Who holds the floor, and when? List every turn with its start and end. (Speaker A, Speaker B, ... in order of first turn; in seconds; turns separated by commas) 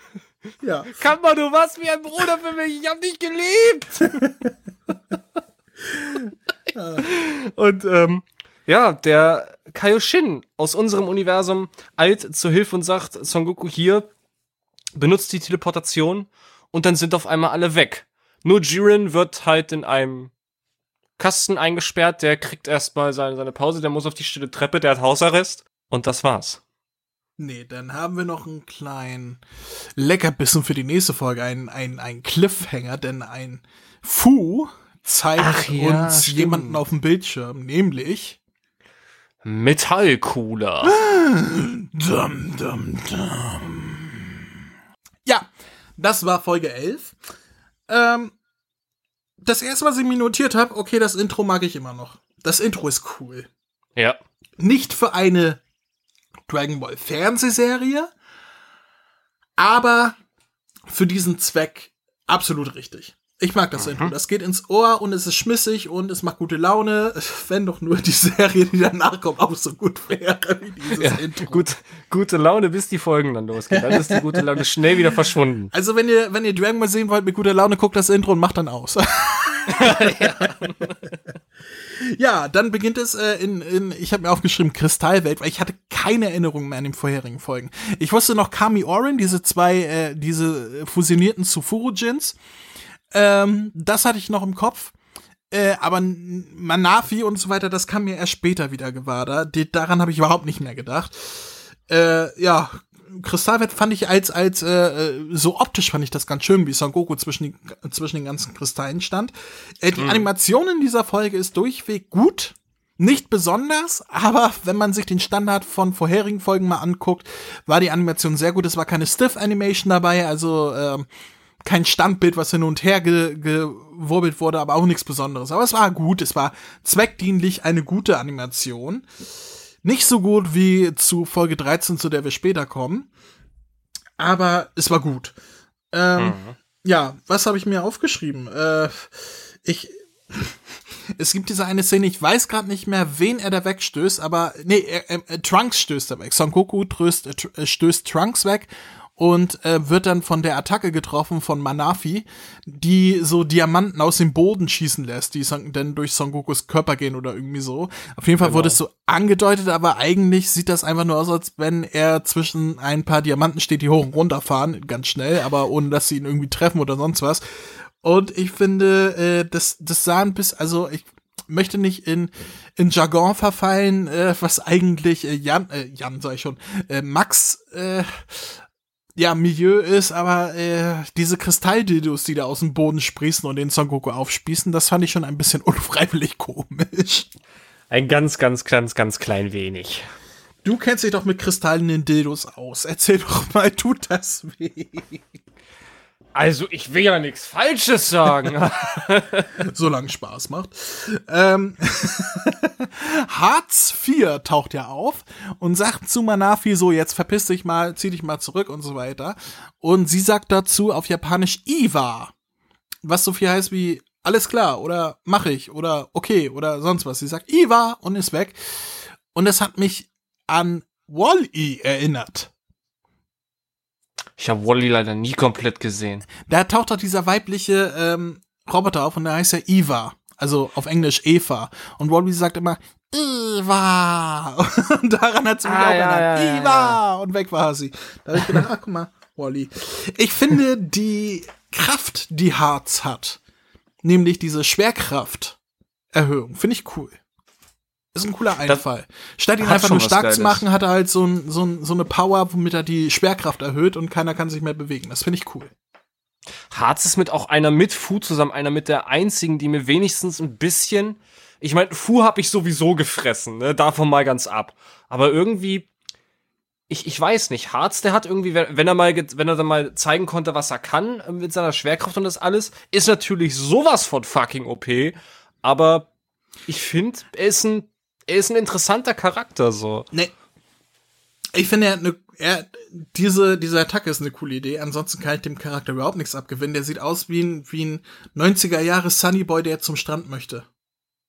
Speaker A: 0.6-0.9, Speaker B: 0.9-4.2, Speaker A: 4.2-4.5, Speaker A: 6.1-7.0, Speaker B: 7.0-14.1, Speaker B: 14.9-20.3, Speaker B: 21.2-26.6, Speaker A: 27.4-29.4, Speaker A: 29.9-38.4, Speaker B: 35.4-36.8, Speaker B: 39.4-41.0, Speaker A: 40.8-44.6, Speaker A: 45.2-47.1, Speaker A: 47.9-48.3, Speaker A: 49.4-53.5, Speaker A: 54.6-55.6, Speaker A: 56.5-58.1, Speaker A: 59.6-60.2, Speaker A: 60.9-71.7, Speaker B: 63.8-64.1, Speaker B: 70.9-75.7, Speaker A: 73.7-74.4, Speaker A: 75.7-80.7, Speaker B: 79.7-81.0, Speaker A: 81.7-92.4, Speaker A: 93.1-94.9, Speaker A: 95.5-121.1, Speaker B: 110.0-110.3, Speaker A: 121.6-129.1, Speaker A: 129.8-133.1, Speaker A: 134.2-135.3, Speaker A: 135.9-140.6, Speaker B: 136.2-136.6, Speaker A: 141.2-167.4, Speaker B: 158.4-158.8, Speaker A: 168.0-178.6, Speaker A: 179.2-187.3, Speaker B: 187.9-190.0, Speaker A: 190.6-195.2, Speaker B: 196.3-199.5, Speaker A: 199.6-212.3, Speaker A: 213.0-222.5, Speaker B: 224.4-226.2, Speaker A: 226.4-243.4, Speaker B: 235.6-237.0, Speaker A: 244.0-245.6, Speaker A: 246.1-247.2, Speaker A: 248.1-255.7, Speaker B: 249.6-250.6, Speaker B: 256.7-265.9, Speaker B: 266.9-276.1, Speaker B: 276.7-280.1, Speaker A: 281.5-290.7